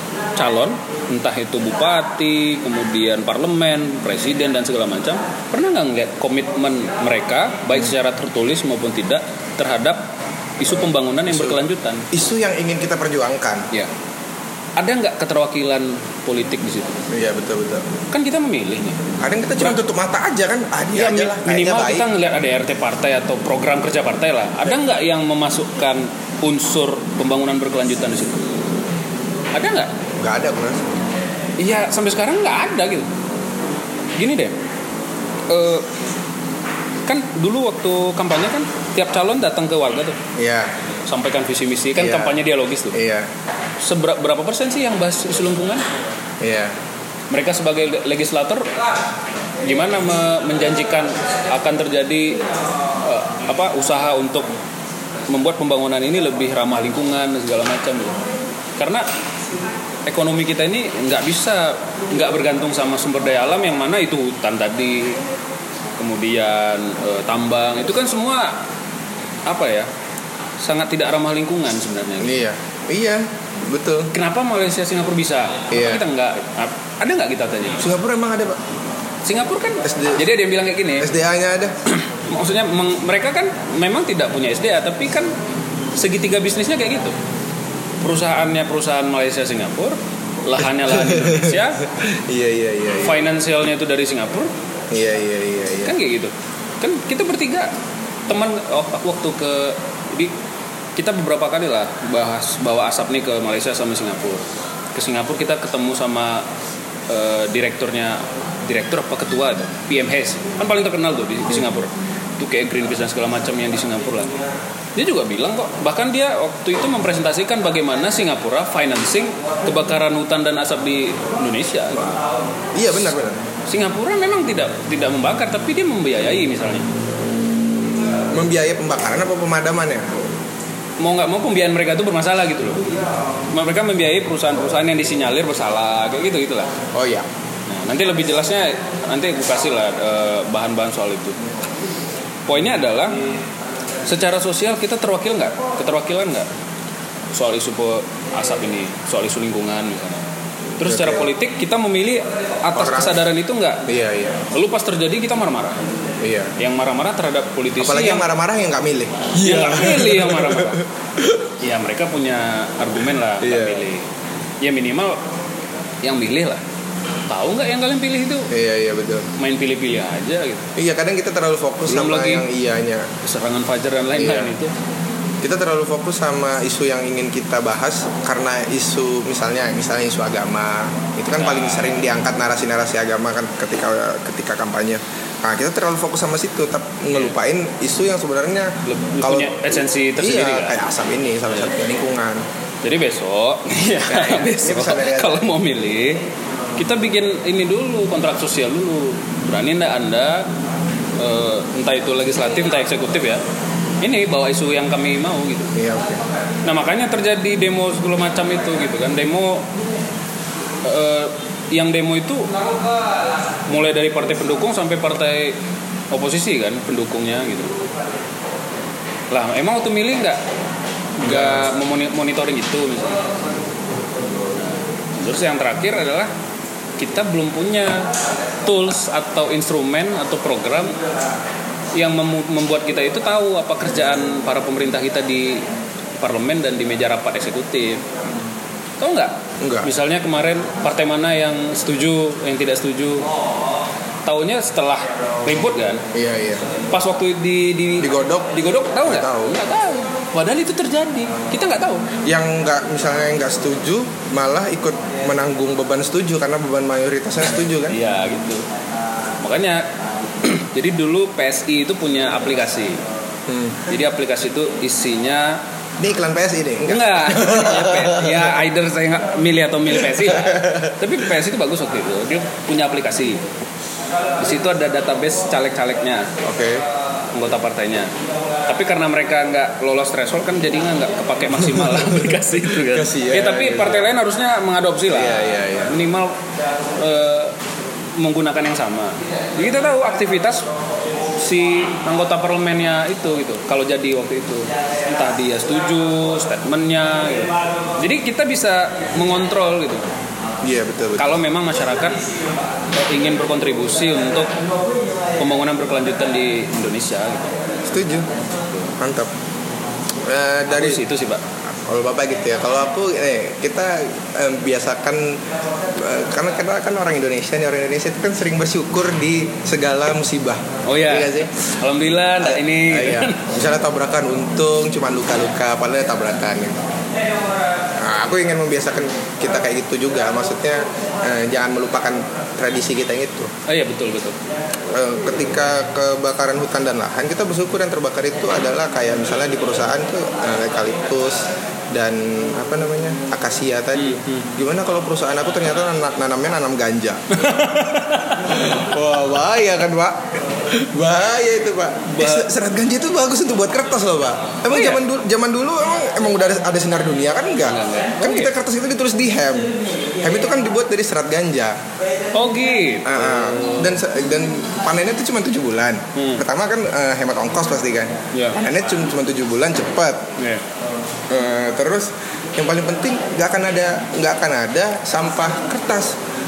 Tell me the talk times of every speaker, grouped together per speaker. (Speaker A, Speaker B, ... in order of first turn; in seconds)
Speaker A: 0.3-10.0, 10.6-12.1, 14.8-17.0, 18.1-19.8, 20.9-28.5, 29.5-29.9, 31.6-33.1, 34.2-34.5, 35.5-35.9, 37.1-40.2, 41.1-43.0, 43.8-45.9, 47.3-48.8, 49.6-52.4, 53.0-54.5, 55.3-58.2, 58.8-59.0, 60.0-65.2, 66.0-68.6, 69.5-69.9, 70.6-72.3, 74.1-77.8, 79.2-81.1, 81.9-85.3, 86.0-87.2, 88.0-91.8, 92.9-94.5, 95.8-97.7, 98.3-100.3, 101.0-104.4, 104.9-106.5, 107.1-114.3, 115.0-122.2, 123.7-126.9, 131.0-132.8, 133.5-136.7, 137.7-141.4, 142.5-143.2, 144.0-146.5, 147.3-150.2, 150.8-153.9, 154.5-155.8, 156.6-158.3, 159.4-160.8, 161.6-164.0, 164.6-165.2, 166.0-166.6, 167.3-168.5, 169.4-170.7, 171.9-172.4, 173.2-174.7, 181.4-181.9, 188.8-190.8, 192.8-196.2, 196.8-200.5, 201.2-203.4, 204.0-205.8, 206.6-209.7, 210.8-212.7, 213.7-215.6, 216.1-217.8, 219.3-220.4, 221.2-223.2, 224.6-226.3, 227.0-228.1, 228.6-231.0, 231.9-235.7, 236.2-238.0, 239.0-243.3, 244.2-246.0, 246.9-252.0, 257.9-258.6, 259.4-259.9, 260.4-263.0, 263.9-265.6, 266.9-273.4, 274.4-276.3, 277.3-278.1, 278.7-286.4, 286.9-287.6, 288.1-290.7, 291.4-300.0, 301.2-302.2, 302.9-304.6, 305.4-307.7, 310.7-311.4, 320.8-323.5, 333.7-334.4, 343.9-344.5, 347.3-348.6, 352.1-352.5, 354.7-355.0, 357.6-358.5, 362.3-363.9, 366.1-366.4, 368.3-368.6, 370.4-370.6
Speaker B: 11.3-11.6, 12.1-13.7, 17.1-17.9, 19.2-22.1, 30.2-30.8, 40.4-40.7, 42.0-42.4, 42.9-43.3, 46.4-46.7, 72.2-74.1, 75.7-76.0, 77.8-78.6, 79.8-80.2, 81.0-81.7, 90.6-93.2, 94.9-95.9, 122.7-123.4, 128.3-130.1, 136.9-137.3, 150.8-151.3, 152.7-153.2, 153.9-154.4, 156.2-156.5, 157.8-161.4, 163.4-163.8, 168.5-169.3, 170.8-173.1, 174.1-174.5, 175.4-192.4, 194.1-195.6, 205.7-206.2, 221.2-221.7, 239.6-239.9, 246.1-246.7, 248.0-249.6, 252.2-258.0, 263.5-263.8, 266.0-268.5, 270.0-270.9, 276.4-276.8, 281.6-284.1, 285.1-285.9, 300.6-301.3, 307.9-308.3, 309.0-309.3, 310.2-311.0, 311.7-321.5, 322.4-326.8, 327.9-333.5, 334.9-361.8, 363.0-370.2, 371.3-376.2